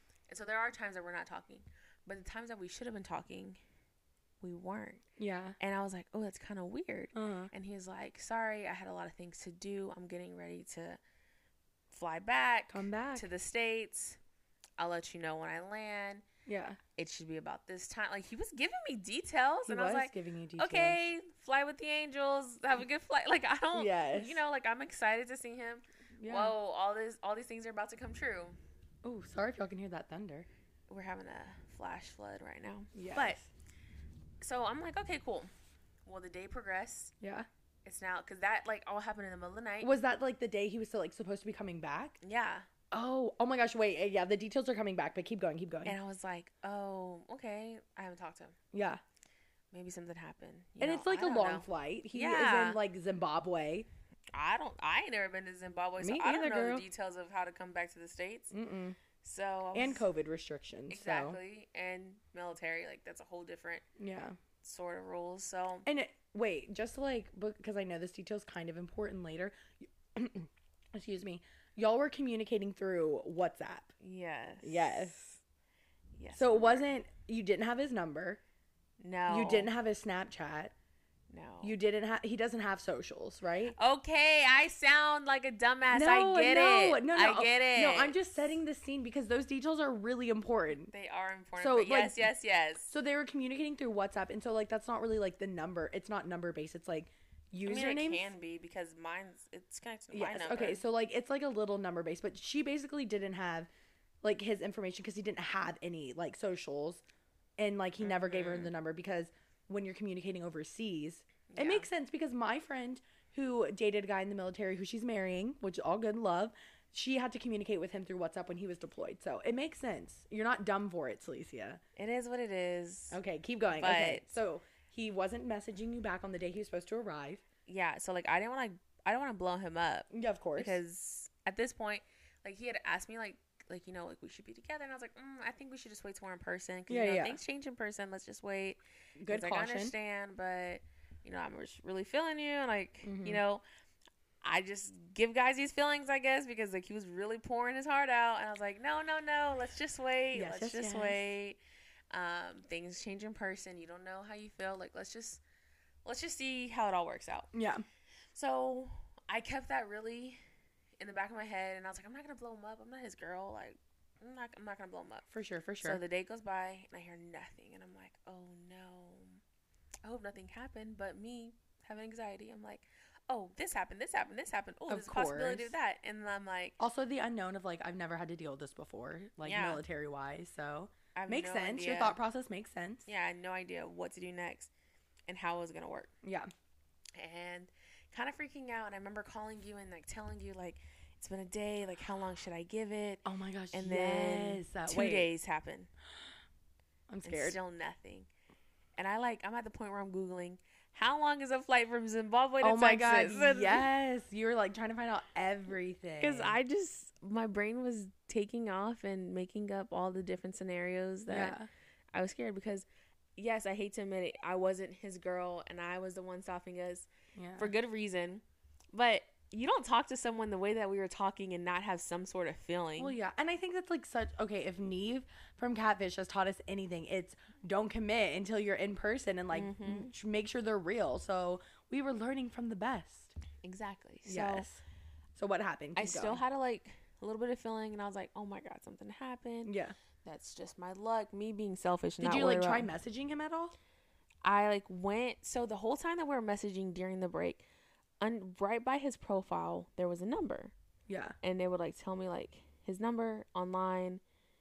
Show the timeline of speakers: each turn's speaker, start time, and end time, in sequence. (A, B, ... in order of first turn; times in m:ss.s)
0:00.3-0:03.6 A
0:04.4-0:05.0 A
0:05.2-0:05.6 B
0:05.6-0:11.0 A
0:07.1-0:07.5 B
0:11.9-0:14.2 A
0:12.7-0:13.3 B
0:14.8-0:16.2 A
0:16.4-0:16.8 B
0:17.0-0:28.6 A
0:19.6-0:21.0 B
0:23.7-0:24.4 B
0:26.2-0:26.5 B
0:29.0-0:30.5 B
0:30.9-0:33.4 A
0:32.9-0:33.5 B
0:34.4-0:35.5 A
0:36.0-0:37.1 A
0:37.2-0:37.5 B
0:37.8-0:39.9 A
0:39.8-0:42.2 B
0:42.2-0:42.7 A
0:42.9-0:46.0 B
0:45.8-0:48.6 A
0:48.7-0:49.0 B
0:49.7-0:52.8 A
0:50.8-0:53.9 B
0:54.3-0:58.5 A
0:56.0-0:56.8 B
0:58.5-0:59.0 B
0:59.2-1:00.0 A
0:59.7-1:01.4 B
1:00.9-1:03.8 A
1:04.0-1:04.4 B
1:04.6-1:05.8 A
1:05.8-1:13.9 B
1:14.0-1:15.2 A
1:14.6-1:15.3 B
1:16.2-1:16.9 A
1:16.3-1:18.4 B
1:19.0-1:19.7 A
1:19.3-1:20.7 B
1:21.3-1:21.7 A
1:21.6-1:23.7 B
1:23.7-1:28.2 A
1:25.9-1:30.9 B
1:30.9-1:32.9 A
1:31.6-1:32.3 B
1:32.9-1:38.3 B
1:37.6-1:40.8 A
1:40.1-1:43.7 B
1:44.2-1:47.0 B
1:47.6-2:01.8 B
1:48.0-1:48.7 A
1:51.5-1:51.9 A
2:02.0-2:03.2 A
2:03.1-2:07.4 B
2:03.7-2:04.3 A
2:07.6-2:23.6 A
2:10.1-2:10.8 B
2:16.9-2:17.4 B
2:19.2-2:19.9 B
2:23.0-2:23.4 B
2:24.4-2:31.6 A
2:30.3-2:31.2 B
2:32.1-2:35.4 A
2:36.0-2:37.5 A
2:37.5-2:37.8 B
2:38.3-2:40.4 A
2:41.0-2:45.2 A
2:45.3-2:46.0 B
2:45.8-2:49.4 A
2:50.0-2:56.8 A
2:54.9-2:55.7 B
2:56.8-3:03.1 B
2:59.4-2:59.8 A
3:01.1-3:02.2 A
3:03.1-3:04.7 A
3:05.3-3:06.1 A
3:06.2-3:06.5 B
3:07.2-3:15.9 A
3:13.2-3:15.3 B
3:17.1-3:17.6 B
3:17.2-3:18.3 A
3:19.0-3:23.9 A
3:22.6-3:26.6 B
3:26.2-3:31.6 A
3:31.3-3:31.7 B
3:32.1-3:32.8 A
3:33.4-3:43.2 A
3:37.3-3:37.7 B
3:43.0-3:53.3 B
3:49.5-3:50.1 A
3:53.6-3:54.7 A
3:54.2-3:54.8 B
3:55.4-3:56.4 B
3:56.0-4:02.9 A
3:59.6-3:59.9 B
4:02.2-4:03.8 B
4:04.4-4:07.6 A
4:08.2-4:10.7 A
4:11.1-4:11.4 B
4:11.4-4:14.2 A